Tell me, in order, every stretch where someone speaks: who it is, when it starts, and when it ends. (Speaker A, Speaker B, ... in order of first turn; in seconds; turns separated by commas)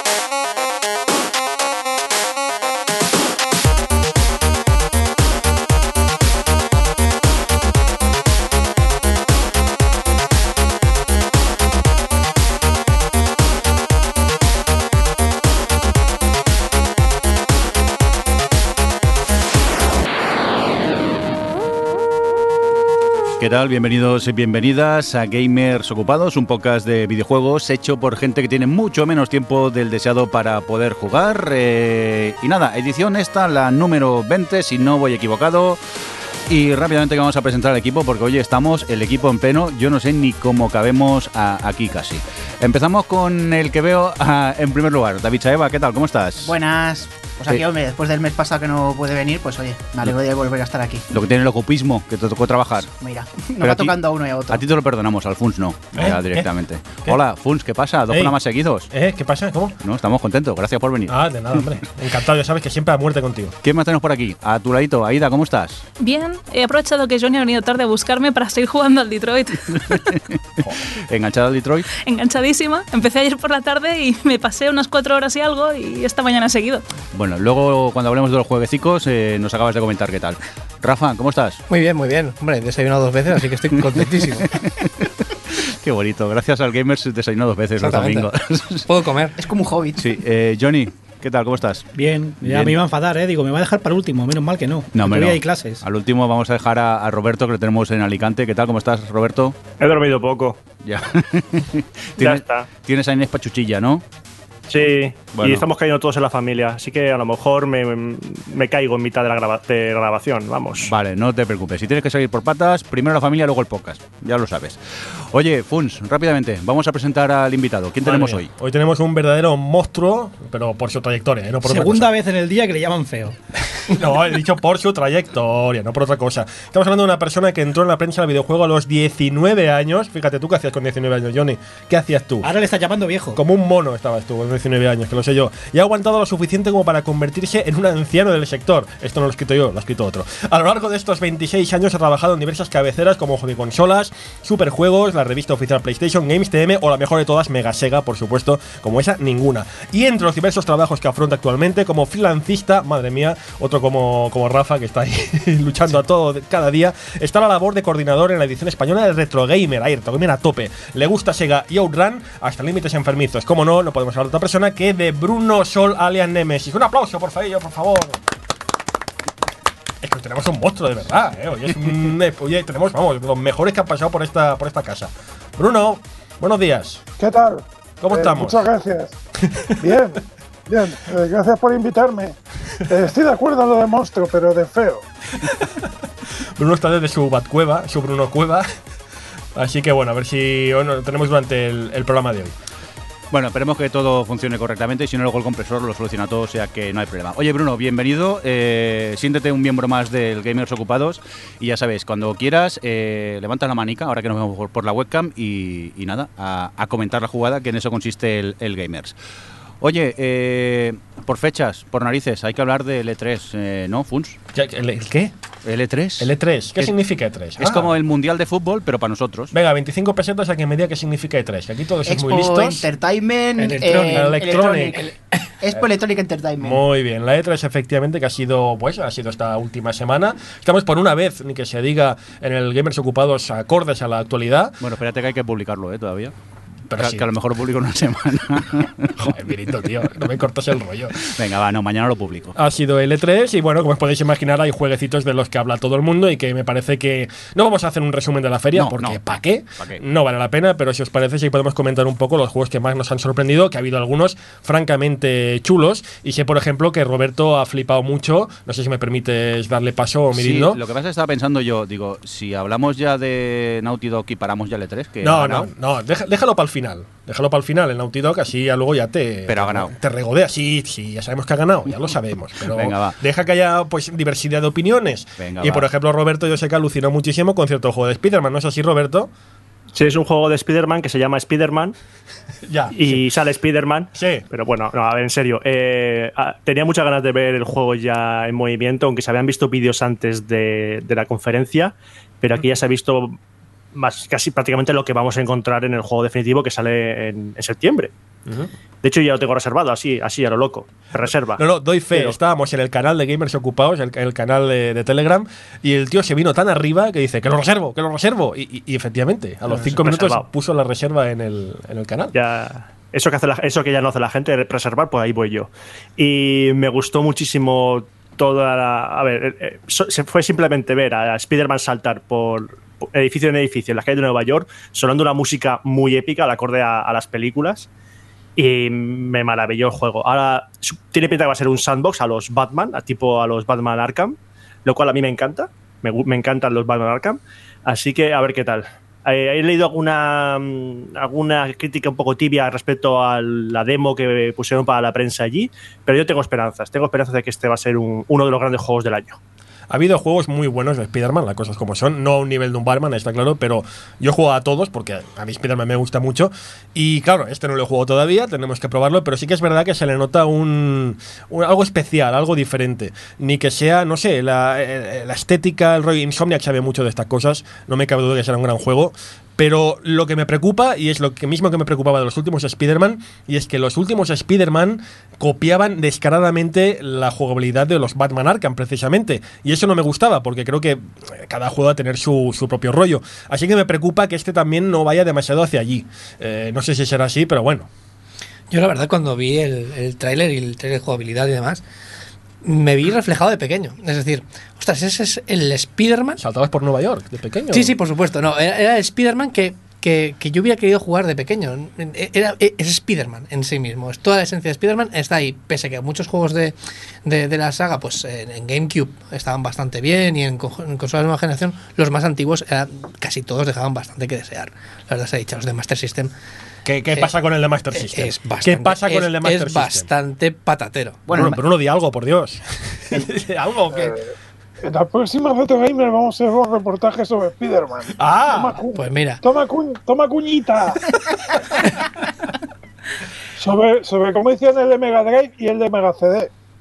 Speaker A: 23.4-35.8, Speaker A: 36.5-46.5, Speaker B: 46.4-51.0, Speaker A: 51.1-52.9, Speaker B: 52.9-54.6, Speaker A: 53.6-53.9, Speaker A: 54.5-58.9, Speaker C: 55.9-56.5, Speaker C: 58.1-58.3, Speaker C: 58.9-59.7, Speaker A: 59.8-61.6, Speaker C: 61.1-63.5, Speaker A: 63.6-65.8, Speaker D: 66.0-70.0, Speaker A: 69.9-71.9, Speaker D: 72.0-76.8, Speaker A: 77.1-81.6, Speaker E: 81.7-84.5, Speaker A: 84.4-88.8, Speaker E: 87.8-88.3, Speaker E: 88.8-89.3, Speaker B: 89.4-90.0, Speaker A: 90.0-91.9, Speaker F: 91.9-95.8, Speaker A: 92.4-92.8, Speaker A: 94.9-99.5, Speaker G: 99.8-100.6, Speaker A: 100.8-104.0, Speaker G: 102.2-102.7, Speaker G: 104.7-110.9, Speaker A: 105.3-105.6, Speaker A: 110.8-118.5, Speaker C: 118.0-122.1, Speaker F: 121.6-123.4, Speaker C: 123.9-132.5, Speaker F: 132.4-133.4, Speaker C: 133.3-168.2, Speaker C: 170.0-177.0, Speaker H: 177.2-179.1, Speaker C: 178.0-178.6, Speaker C: 179.5-179.7, Speaker H: 179.8-182.3, Speaker H: 182.9-185.0, Speaker C: 186.6-188.7, Speaker C: 189.5-192.5, Speaker A: 193.3-209.1, Speaker A: 209.8-214.4, Speaker C: 214.5-215.3, Speaker A: 215.6-216.9, Speaker C: 216.2-217.9, Speaker A: 217.6-219.5, Speaker C: 219.5-222.8, Speaker B: 222.0-226.8, Speaker F: 223.6-224.4, Speaker C: 224.1-225.0, Speaker C: 226.6-234.8, Speaker A: 234.8-236.3, Speaker C: 236.9-237.2, Speaker A: 237.0-239.1, Speaker C: 239.2-241.3, Speaker A: 241.2-242.5, Speaker C: 242.6-260.8, Speaker A: 248.7-250.0, Speaker A: 260.3-265.7, Speaker C: 265.2-279.3, Speaker A: 269.5-269.9, Speaker A: 272.7-273.2, Speaker A: 275.4-275.9, Speaker G: 279.9-281.9, Speaker C: 282.6-283.2, Speaker G: 282.9-293.4, Speaker C: 284.1-284.4, Speaker G: 293.9-298.1, Speaker G: 299.0-302.4, Speaker C: 301.6-312.3, Speaker G: 309.7-310.4, Speaker G: 312.3-327.9, Speaker G: 328.6-349.4, Speaker C: 349.9-387.9, Speaker E: 388.7-391.8, Speaker E: 392.6-396.4, Speaker C: 396.4-397.9, Speaker E: 397.7-416.3, Speaker C: 416.8-420.1, Speaker E: 417.9-421.2, Speaker B: 421.3-421.6, Speaker C: 421.3-424.2, Speaker H: 423.9-424.2, Speaker H: 424.8-431.0, Speaker C: 428.2-428.8, Speaker E: 428.9-429.4, Speaker H: 433.6-436.5